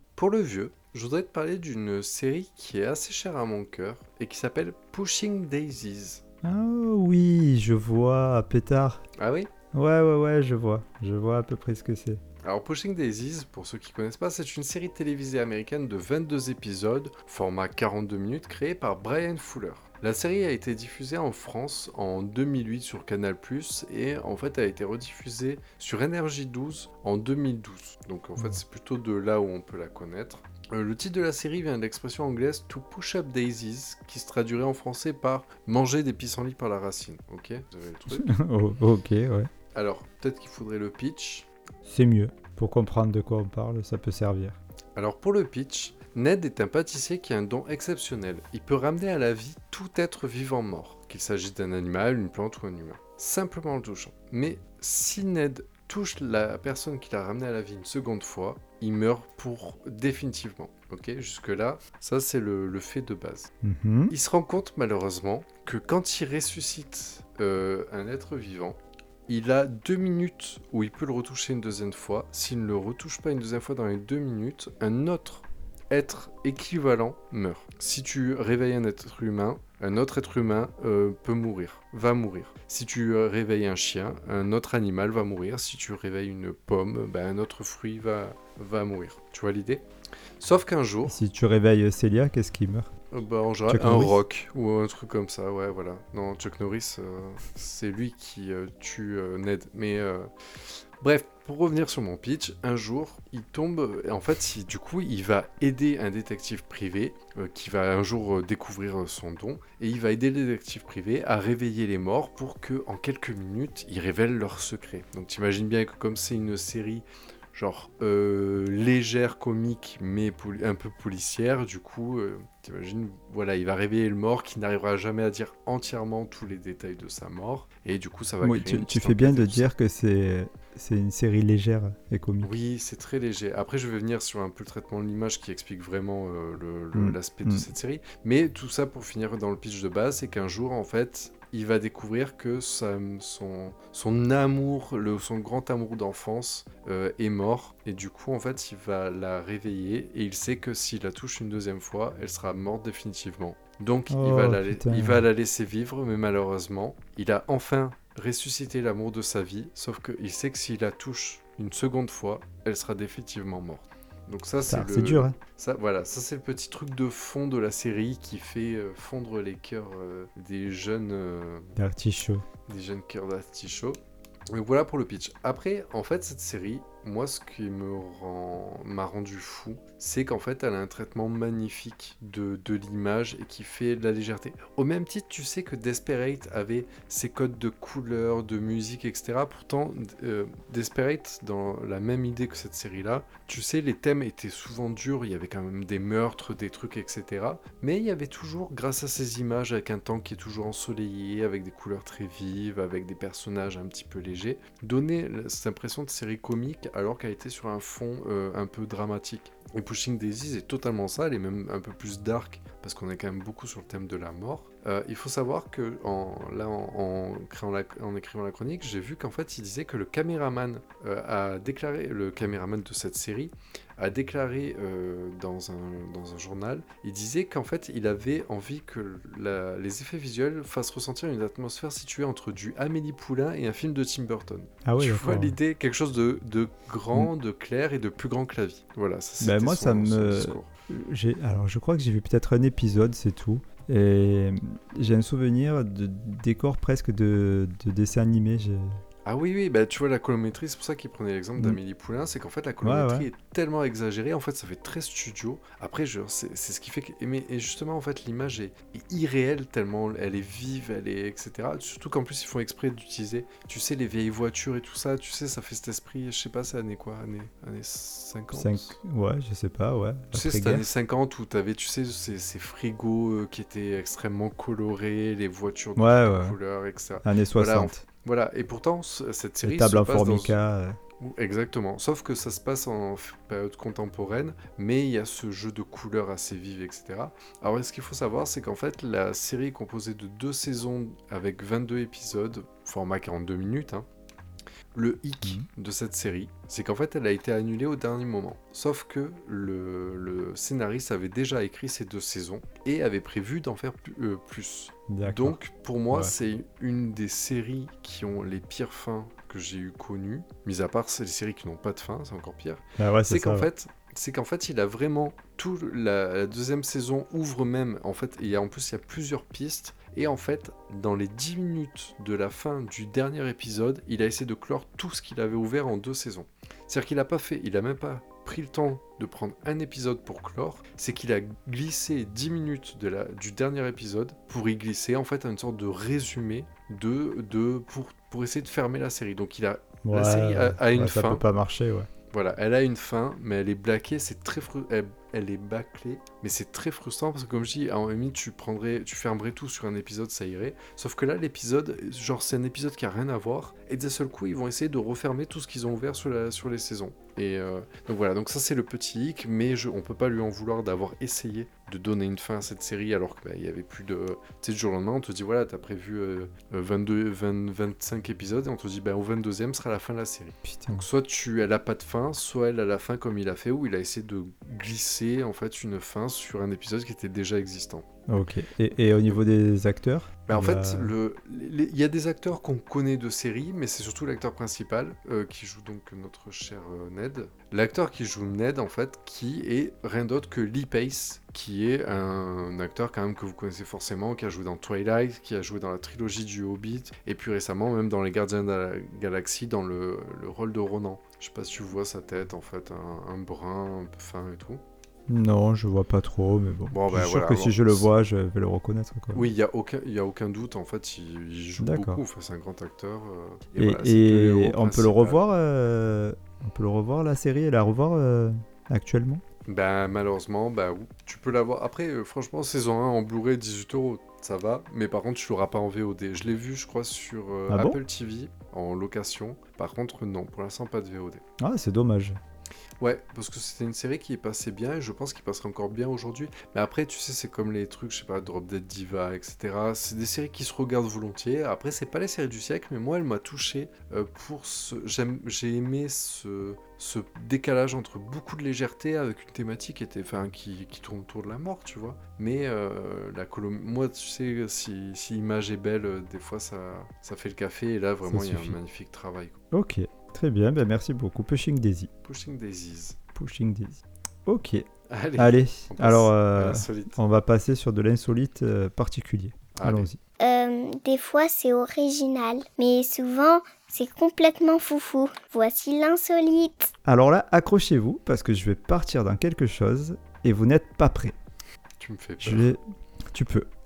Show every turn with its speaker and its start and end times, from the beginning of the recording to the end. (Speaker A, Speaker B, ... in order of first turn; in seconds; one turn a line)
Speaker A: 0.2-6.2
Speaker B: 6.4-9.0
Speaker A: 9.2-9.5
Speaker B: 9.7-12.2
Speaker A: 12.4-38.3
Speaker B: 38.1-39.5
Speaker A: 39.7-41.5
Speaker B: 41.9-44.6
Speaker A: 45.0-63.5
Speaker B: 63.6-64.1
Speaker A: 64.1-89.8
Speaker A: 90.4-91.2
Speaker B: 91.1-92.9
Speaker A: 93.1-100.3
Speaker B: 93.7-94.2
Speaker A: 101.0-129.7
Speaker B: 128.4-132.5
Speaker A: 132.4-171.8
Speaker B: 136.9-137.7
Speaker B: 154.1-155.2
Speaker B: 164.7-165.4
Speaker B: 171.8-172.4
Speaker A: 172.7-174.0
Speaker A: 174.5-240.7
Speaker B: 234.8-235.6
Speaker B: 239.4-249.0
Speaker A: 249.2-269.0
Speaker B: 252.8-253.3
Speaker B: 268.5-270.9
Speaker A: 270.3-280.6
Speaker B: 275.9-276.6
Speaker B: 277.2-278.0
Speaker B: 279.6-281.0
Speaker A: 281.2-294.1
Speaker A: 294.9-341.4
Speaker B: 305.1-305.6
Speaker B: 313.0-313.7
Speaker B: 340.0-342.1
Speaker A: 342.3-378.1
Speaker B: 370.6-371.1
Speaker B: 378.3-381.1
Speaker A: 380.5-404.8
Speaker B: 405.3-409.5
Speaker A: 406.9-408.1
Speaker A: 409.3-415.4
Speaker B: 411.8-412.2
Speaker B: 413.8-419.4
Speaker A: 419.6-431.4
Speaker B: 427.7-428.0
Speaker B: 431.6-432.4
Speaker A: 433.0-459.6
Speaker B: 458.3-458.8
Speaker B: 459.7-462.1
Speaker A: 462.2-463.2
Speaker B: 463.3-470.2
Speaker A: 465.1-467.2
Speaker A: 469.8-470.1
Speaker C: 470.4-476.9
Speaker B: 477.0-481.4
Speaker A: 482.0-482.8
Speaker B: 482.4-483.7